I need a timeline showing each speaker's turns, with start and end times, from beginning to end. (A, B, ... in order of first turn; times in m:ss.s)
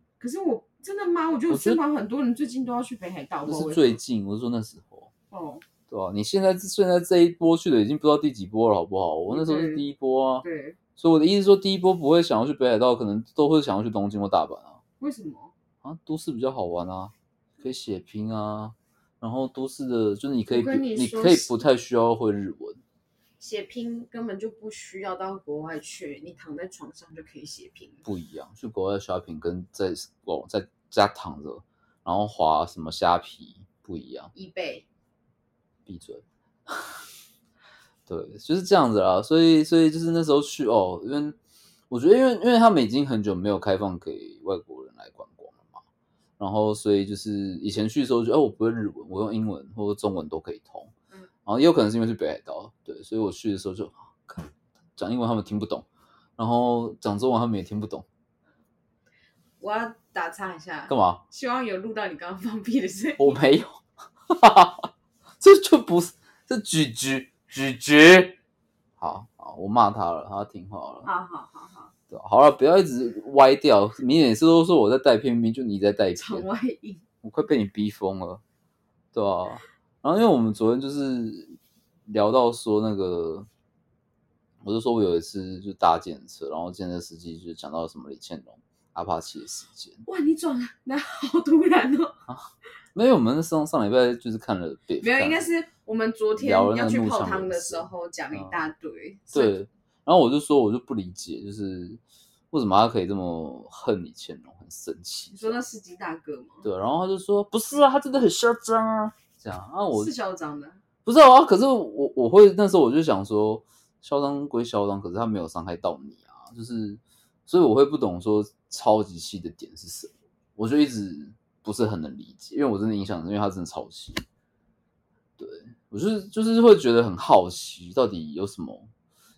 0:00.2-0:04.0 A
0:01.5-0:01.8 B
0:03.5-0:05.1 B
0:05.3-0:05.6 A
0:05.9-0:10.4 B
0:09.3-0:09.8 A
0:10.4-0:10.8 A
0:11.0-0:14.8 B
0:15.0-0:15.5 A
0:15.8-0:22.8 B
0:20.5-0:21.6 A
0:23.4-0:28.0 A
0:28.0-0:34.3 B
0:34.3-0:34.9 A
0:35.9-0:37.0 B
0:38.1-0:41.4 B
0:41.9-0:45.8 B
0:46.4-0:50.9 B
0:51.5-0:55.9 B
0:56.4-0:58.1 B
0:59.6-1:03.4 A
1:00.9-1:01.2 B
1:03.2-1:08.4 B
1:09.0-1:11.1 B
1:11.0-1:11.9 A
1:12.1-1:16.5 B
1:16.2-1:17.0 A
1:17.2-1:18.4 B
1:19.1-1:23.5 B
1:24.6-1:30.0 B
1:30.1-1:32.2 A
1:32.3-1:35.4 B
1:35.0-1:39.6 A
1:36.4-1:38.6 B
1:39.3-1:45.6 B
1:45.3-1:46.7 A
1:46.6-1:50.1 B
1:49.9-1:50.8 A
1:51.0-2:04.2 B
2:05.4-2:08.9 B